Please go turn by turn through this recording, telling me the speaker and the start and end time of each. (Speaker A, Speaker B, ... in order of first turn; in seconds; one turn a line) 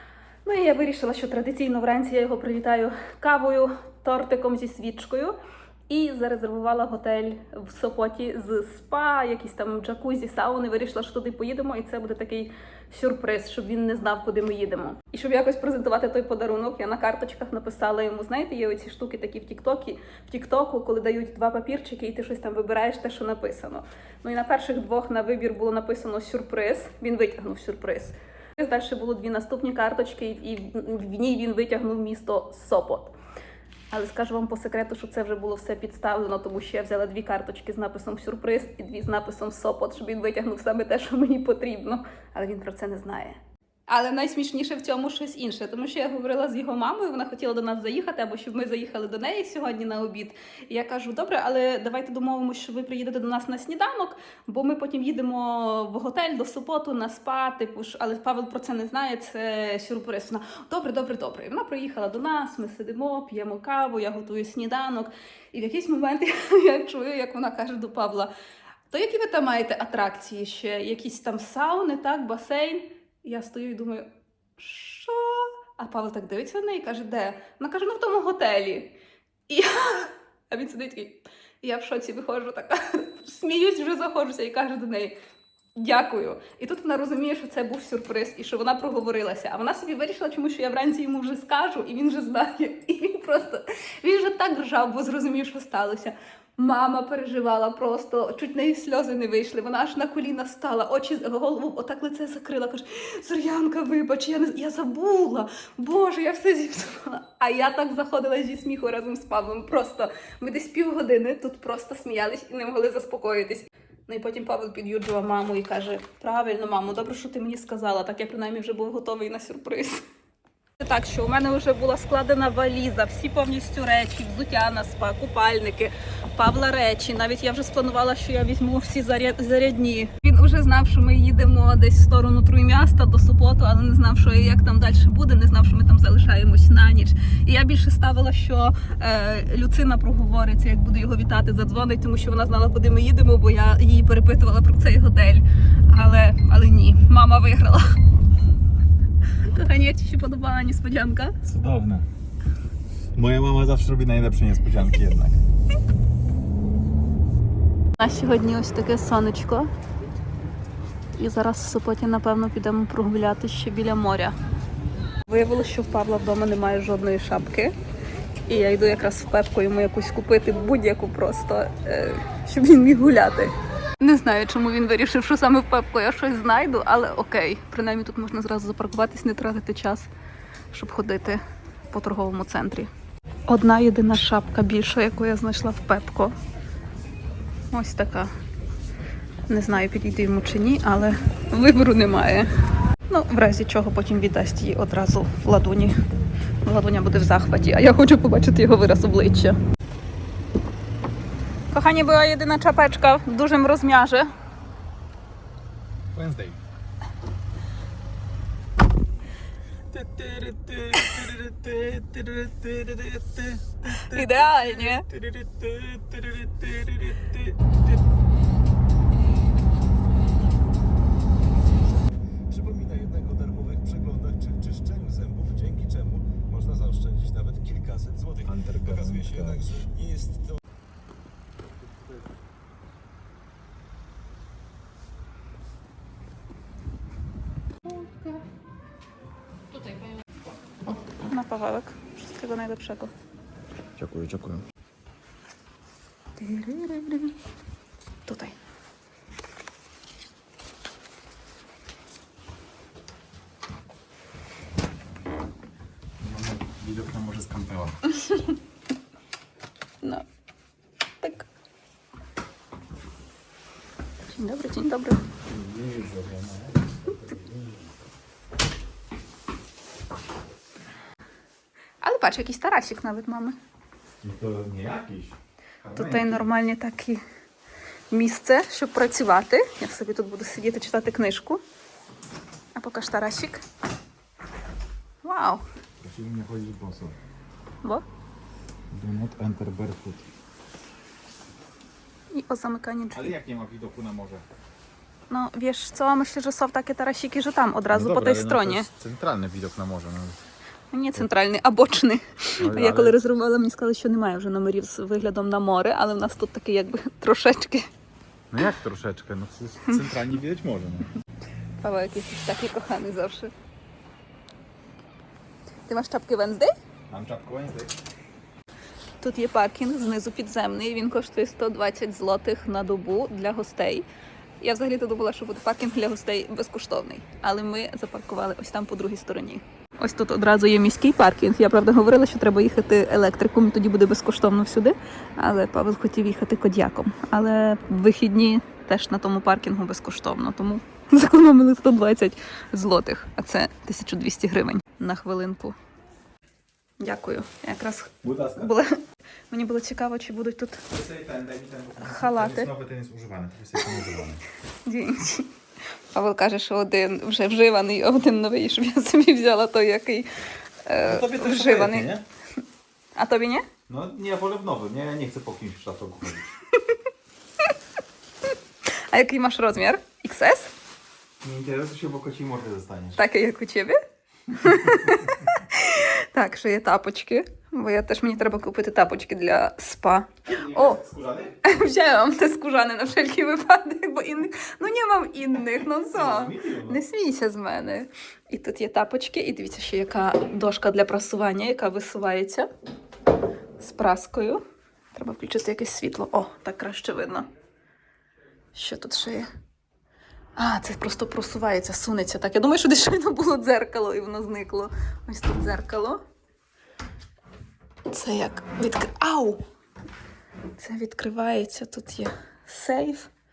Speaker A: 0.5-5.4
Speaker A: 5.9-33.1
Speaker A: 33.9-68.3
Speaker A: 68.9-78.9
Speaker A: 79.5-85.2
Speaker A: 85.8-120.0
Speaker A: 120.8-148.0
Speaker A: 149.3-151.3
Speaker B: 151.4-152.1
Speaker B: 153.2-155.4
Speaker A: 158.0-159.7
Speaker A: 161.2-164.3
Speaker A: 165.3-167.8
Speaker A: 168.5-180.1
Speaker A: 180.7-182.9
Speaker A: 183.5-186.3
Speaker A: 187.7-188.3
Speaker A: 189.5-192.5
Speaker A: 193.1-196.0
Speaker A: 196.7-199.6
Speaker A: 201.7-204.3
Speaker B: 206.1-206.6
Speaker B: 209.9-217.4
Speaker A: 213.9-215.1
Speaker C: 222.5-230.5
Speaker B: 228.4-229.8
Speaker A: 240.9-243.1
Speaker B: 244.0-244.6
Speaker A: 246.4-247.3
Speaker A: 248.3-248.6
Speaker B: 256.2-258.0
Speaker A: 261.2-261.5
Speaker A: 264.3-265.2
Speaker B: 265.5-267.9
Speaker A: 272.0-273.6
Speaker B: 274.2-276.5
Speaker A: 275.9-277.2
Speaker A: 278.1-281.6
Speaker A: 282.8-283.6
Speaker A: 285.2-285.6
Speaker B: 286.0-287.1
Speaker B: 288.9-290.2
Speaker A: 292.3-293.3
Speaker B: 293.1-294.4
Speaker A: 295.3-298.9
Speaker B: 297.9-300.4
Speaker A: 300.9-307.9
Speaker B: 302.6-303.2
Speaker B: 308.5-311.1
Speaker A: 309.9-310.1
Speaker A: 311.8-313.5
Speaker A: 315.9-316.7
Speaker B: 317.1-318.0
Speaker A: 319.2-324.1
Speaker A: 324.6-345.8
Speaker A: 347.0-350.8
Speaker B: 348.2-348.7
Speaker B: 350.9-354.4
Speaker A: 352.0-352.7
Speaker A: 354.9-355.5
Speaker A: 356.1-360.3
Speaker A: 360.9-362.1
Speaker B: 361.0-362.2
Speaker A: 363.1-363.6
Speaker B: 363.9-366.5
Speaker A: 369.1-370.7
Speaker B: 371.4-373.2
Speaker A: 373.2-374.0
Speaker A: 374.5-381.0
Speaker B: 380.5-381.6
Speaker A: 381.6-392.7
Speaker B: 386.1-387.0
Speaker A: 393.8-394.6
Speaker A: 395.1-397.5
Speaker A: 398.8-399.5
Speaker A: 400.6-406.2
Speaker A: 408.1-409.6
Speaker A: 410.8-413.3